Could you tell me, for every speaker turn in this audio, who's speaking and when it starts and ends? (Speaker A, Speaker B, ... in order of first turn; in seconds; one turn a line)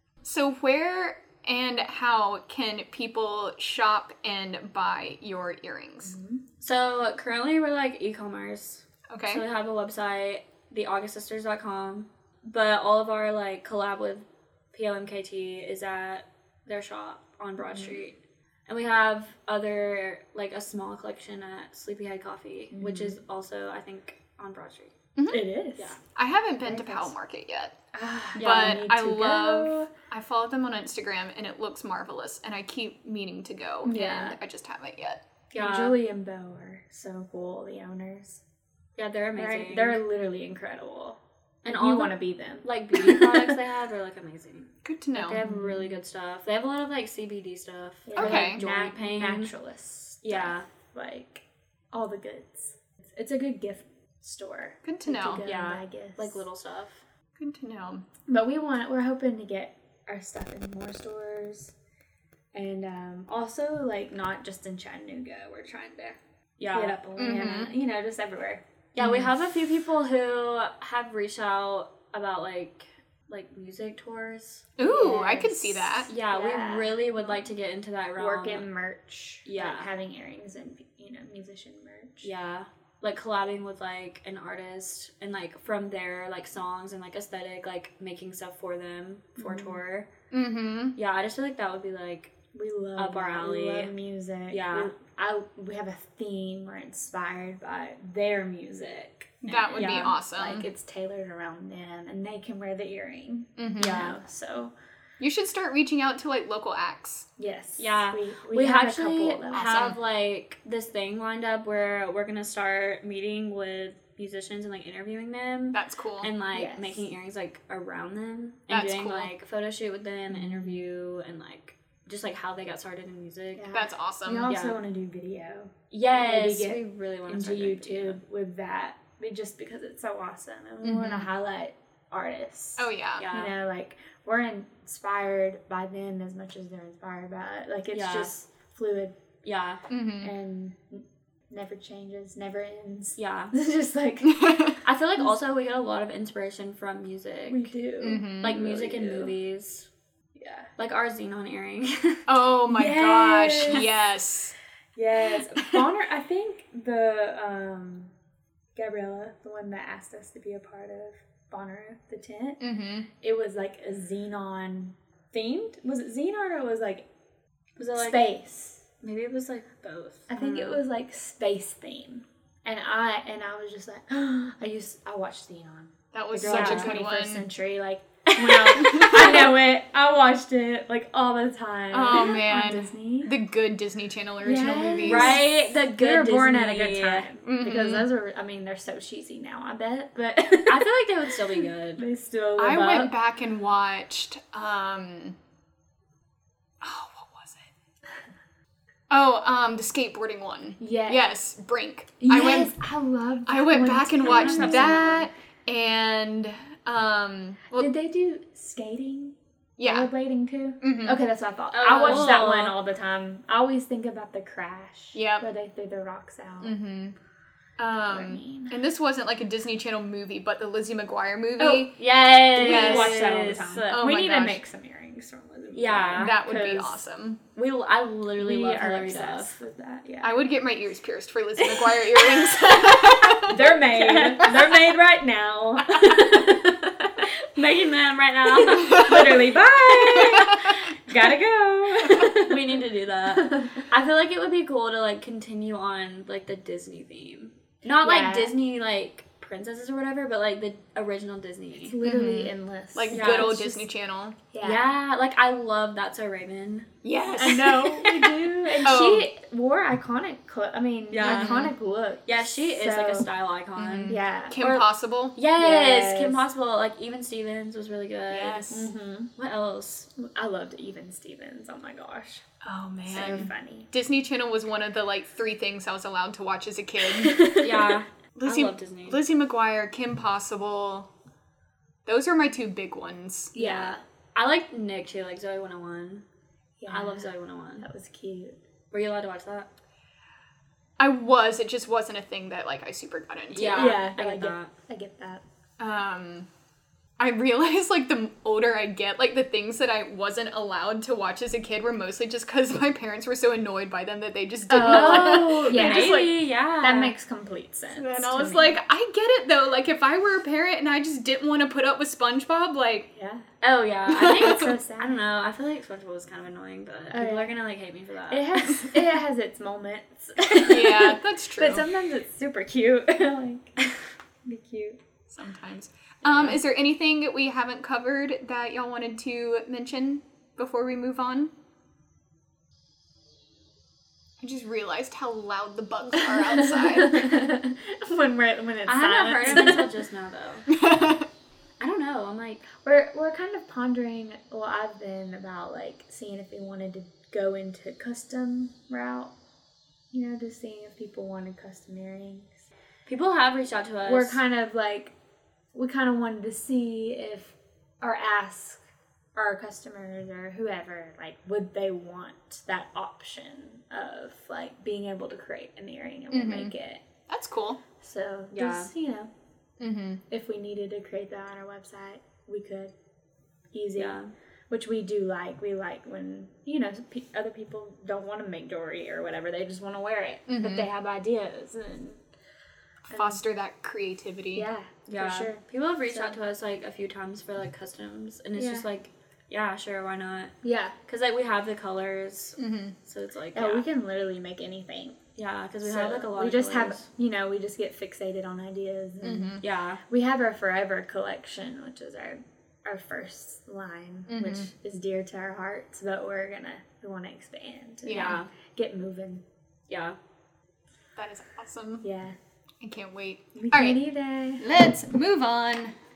Speaker A: 0.2-6.2
Speaker B: 6.1-6.4
Speaker C: 6.6-24.9
Speaker A: 9.1-9.4
Speaker B: 22.7-23.2
Speaker A: 25.2-25.4
Speaker B: 25.3-25.9
Speaker A: 26.1-27.8
Speaker B: 26.6-27.1
Speaker B: 27.9-29.9
Speaker A: 28.4-35.2
Speaker C: 28.4-28.9
Speaker B: 33.9-34.4
Speaker C: 35.5-36.0
Speaker B: 35.5-38.4
Speaker C: 39.0-40.0
Speaker B: 39.4-43.5
Speaker C: 41.6-49.5
Speaker A: 44.9-45.4
Speaker B: 45.4-46.0
Speaker B: 48.1-56.4
Speaker A: 48.2-48.6
Speaker C: 50.2-50.7
Speaker A: 54.8-55.4
Speaker C: 55.4-57.0
Speaker A: 57.4-58.0
Speaker B: 58.3-61.7
Speaker B: 62.5-69.2
Speaker C: 66.6-67.4
Speaker A: 67.2-67.7
Speaker C: 69.0-75.5
Speaker A: 74.8-76.1
Speaker B: 74.8-75.5
Speaker C: 76.1-78.7
Speaker B: 76.1-77.5
Speaker B: 78.2-82.3
Speaker C: 79.5-79.9
Speaker C: 82.2-90.1
Speaker B: 89.4-89.8
Speaker A: 90.3-91.0
Speaker C: 91.0-92.3
Speaker B: 92.5-104.8
Speaker C: 93.0-93.9
Speaker C: 94.5-94.9
Speaker A: 99.4-100.7
Speaker C: 99.8-100.2
Speaker A: 103.6-104.1
Speaker C: 103.8-104.2
Speaker A: 105.2-107.3
Speaker B: 107.4-110.0
Speaker C: 107.8-123.8
Speaker A: 109.5-110.0
Speaker A: 115.7-116.3
Speaker B: 116.5-117.0
Speaker A: 118.7-119.3
Speaker B: 120.3-120.8
Speaker B: 123.5-139.2
Speaker A: 123.7-124.5
Speaker C: 124.5-124.8
Speaker C: 125.9-128.2
Speaker C: 130.8-131.2
Speaker A: 132.8-133.3
Speaker C: 133.2-133.5
Speaker C: 137.9-138.3
Speaker C: 139.4-139.8
Speaker A: 139.9-140.3
Speaker B: 140.2-144.6
Speaker C: 143.2-143.5
Speaker A: 144.2-144.8
Speaker C: 144.8-147.7
Speaker B: 147.5-149.3
Speaker A: 148.0-148.6
Speaker C: 148.3-149.9
Speaker B: 150.4-150.7
Speaker C: 150.8-152.2
Speaker A: 152.3-154.6
Speaker B: 152.7-153.9
Speaker B: 154.9-158.1
Speaker B: 158.8-162.6
Speaker A: 162.6-163.1
Speaker B: 163.2-167.1
Speaker C: 167.8-168.2
Speaker B: 167.9-168.8
Speaker C: 169.0-170.8
Speaker B: 170.3-183.3
Speaker A: 176.1-177.4
Speaker C: 176.5-176.9
Speaker A: 178.8-179.5
Speaker A: 181.9-185.4
Speaker B: 184.4-193.1
Speaker C: 185.0-187.3
Speaker A: 187.4-188.1
Speaker C: 190.6-192.1
Speaker A: 192.6-195.4
Speaker A: 196.8-197.7
Speaker A: 199.1-202.8
Speaker B: 200.8-201.2
Speaker B: 202.2-205.3
Speaker A: 203.5-207.9
Speaker C: 204.2-205.1
Speaker B: 207.8-216.8
Speaker A: 209.8-210.1
Speaker A: 210.8-211.2
Speaker C: 211.8-212.8
Speaker A: 211.8-212.4
Speaker A: 215.1-215.5
Speaker A: 216.6-217.2
Speaker A: 217.8-222.0
Speaker B: 217.9-218.8
Speaker B: 221.6-227.0
Speaker C: 221.7-224.0
Speaker A: 222.6-224.6
Speaker C: 225.7-226.4
Speaker A: 226.2-227.4
Speaker C: 227.6-229.6
Speaker B: 228.4-230.4
Speaker A: 230.2-233.6
Speaker B: 233.4-237.3
Speaker C: 233.8-234.5
Speaker C: 237.5-239.2
Speaker B: 238.6-242.6
Speaker A: 238.9-239.4
Speaker C: 242.1-252.0
Speaker B: 248.0-248.6
Speaker B: 251.8-253.8
Speaker A: 252.0-254.4
Speaker C: 253.1-253.6
Speaker B: 254.5-254.9
Speaker C: 254.6-256.9
Speaker A: 257.0-259.3
Speaker B: 257.4-263.3
Speaker C: 261.1-261.7
Speaker A: 261.2-261.6
Speaker C: 262.3-270.1
Speaker A: 263.8-265.4
Speaker B: 264.1-264.6
Speaker B: 265.6-266.4
Speaker B: 268.3-269.3
Speaker B: 270.2-272.4
Speaker A: 272.6-277.7
Speaker B: 273.1-273.9
Speaker C: 277.6-279.2
Speaker A: 278.4-281.1
Speaker A: 282.1-283.5
Speaker B: 283.6-284.0
Speaker C: 283.6-286.2
Speaker B: 286.8-288.6
Speaker C: 286.9-287.9
Speaker C: 288.9-289.7
Speaker A: 291.0-294.0
Speaker C: 293.5-294.7
Speaker B: 293.7-295.4
Speaker A: 295.8-296.5
Speaker A: 297.2-306.3
Speaker B: 304.7-308.8
Speaker C: 304.8-307.1
Speaker A: 307.9-313.1
Speaker B: 313.1-313.5
Speaker C: 313.6-318.8
Speaker A: 314.1-314.7
Speaker B: 314.3-315.3
Speaker B: 317.1-317.6
Speaker B: 318.3-323.8
Speaker A: 320.6-321.9
Speaker B: 324.4-325.0
Speaker A: 325.3-331.5
Speaker A: 334.4-337.4
Speaker B: 336.9-339.9
Speaker C: 338.9-340.7
Speaker A: 340.7-341.3
Speaker C: 341.8-342.7
Speaker B: 342.8-349.3
Speaker B: 350.1-352.6
Speaker C: 353.1-354.4
Speaker B: 354.0-355.1
Speaker B: 355.7-358.8
Speaker B: 359.4-367.0
Speaker A: 366.3-366.7
Speaker A: 367.3-367.8
Speaker B: 368.0-369.3
Speaker C: 368.5-368.9
Speaker A: 369.8-370.2
Speaker B: 370.3-372.9
Speaker B: 373.7-374.2
Speaker C: 374.0-374.3
Speaker B: 374.7-382.2
Speaker A: 380.5-380.9
Speaker B: 383.1-383.4
Speaker A: 383.1-384.7
Speaker B: 384.6-386.4
Speaker C: 385.1-390.5
Speaker B: 388.6-388.9
Speaker B: 390.6-391.0
Speaker C: 391.1-393.9
Speaker A: 392.6-393.0
Speaker B: 393.5-395.2
Speaker C: 395.4-397.1
Speaker B: 395.8-409.4
Speaker A: 399.2-399.6
Speaker C: 399.6-400.0
Speaker A: 404.3-404.7
Speaker A: 408.1-408.4
Speaker C: 408.1-408.5
Speaker C: 409.9-410.2
Speaker A: 411.2-412.0
Speaker B: 412.0-412.4
Speaker A: 412.8-414.0
Speaker B: 413.6-414.6
Speaker A: 414.6-416.0